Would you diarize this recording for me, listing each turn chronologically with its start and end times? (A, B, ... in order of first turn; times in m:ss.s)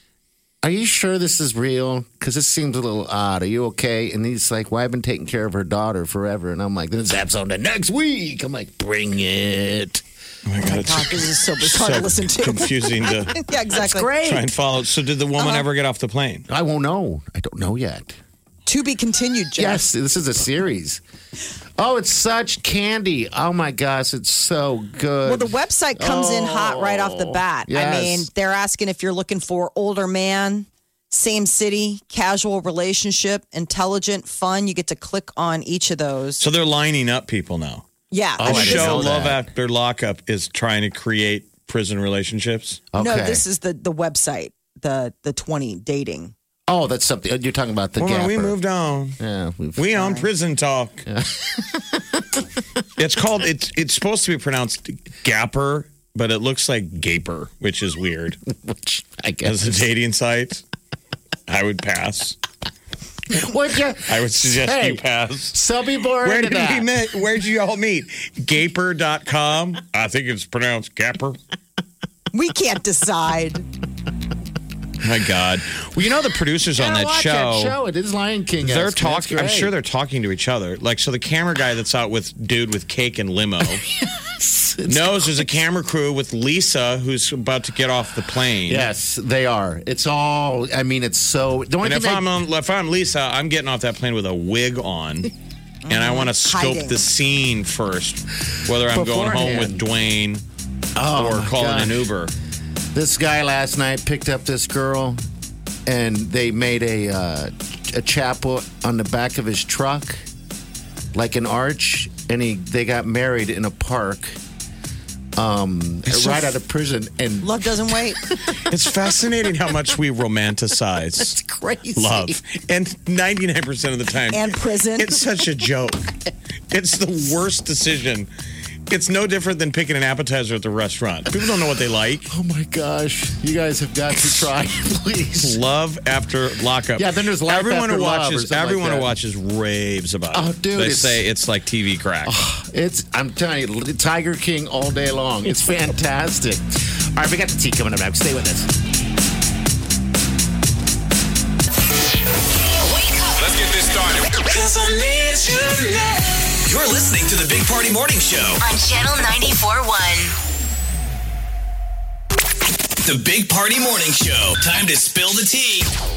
0:00.6-0:10.0 A
0:10.4-0:13.4 B
0:10.6-0:14.1 C
0:13.7-0:14.5 A
0:14.2-0:16.4 B
0:15.4-0:15.6 C
0:16.5-0:18.2 A
0:18.6-0:19.8 C
0:19.6-0:21.0 A
0:21.8-0:28.3 A
0:25.2-0:36.4 C
0:36.4-0:37.8 B
0:38.1-0:39.1 C
0:38.4-0:39.5 A
0:38.4-0:42.8 B
0:42.9-0:43.4 A
0:43.0-0:46.3 C
0:46.7-0:48.6 A
0:48.0-0:49.2 B
0:49.2-0:50.1 A
0:49.8-0:51.0 B
0:49.9-0:50.2 C
0:51.1-0:52.4 A
0:53.0-0:58.4 B
0:58.5-0:59.9 A
0:59.4-1:00.6 B
1:01.5-1:02.4 B
1:03.3-1:07.0 A
1:04.1-1:05.6 B
1:06.2-1:11.4 B
1:12.3-1:13.6 C
1:15.0-1:17.8 B
1:16.8-1:19.7 A
1:18.6-1:23.9 B
1:23.8-1:25.5 A
1:24.9-1:28.9 B
1:28.6-1:32.3 A
1:31.8-1:35.3 B
1:35.8-1:37.0 C
1:35.9-1:40.4 B
1:38.9-1:39.8 A
1:41.0-1:42.1 A
1:41.1-1:42.3 B
1:42.9-1:45.2 A
1:45.9-1:50.2 A
1:51.1-1:54.4 A
1:55.4-1:58.6 A
1:56.1-1:56.5 B
1:57.4-1:58.2 C
1:58.6-2:01.4 B
2:01.2-2:02.4 A
2:02.0-2:06.2 B
2:04.3-2:05.2 C
2:06.7-2:08.3 B
2:08.9-2:12.3 B
2:12.3-2:15.6 A
2:15.4-2:22.4 B
2:17.0-2:19.1 A
2:20.3-2:21.2 A
2:22.2-2:28.7 A
2:32.8-2:33.4 D
2:33.6-2:36.4 E
2:36.6-2:38.6 F
2:38.6-2:40.3 D
2:43.0-2:45.9 F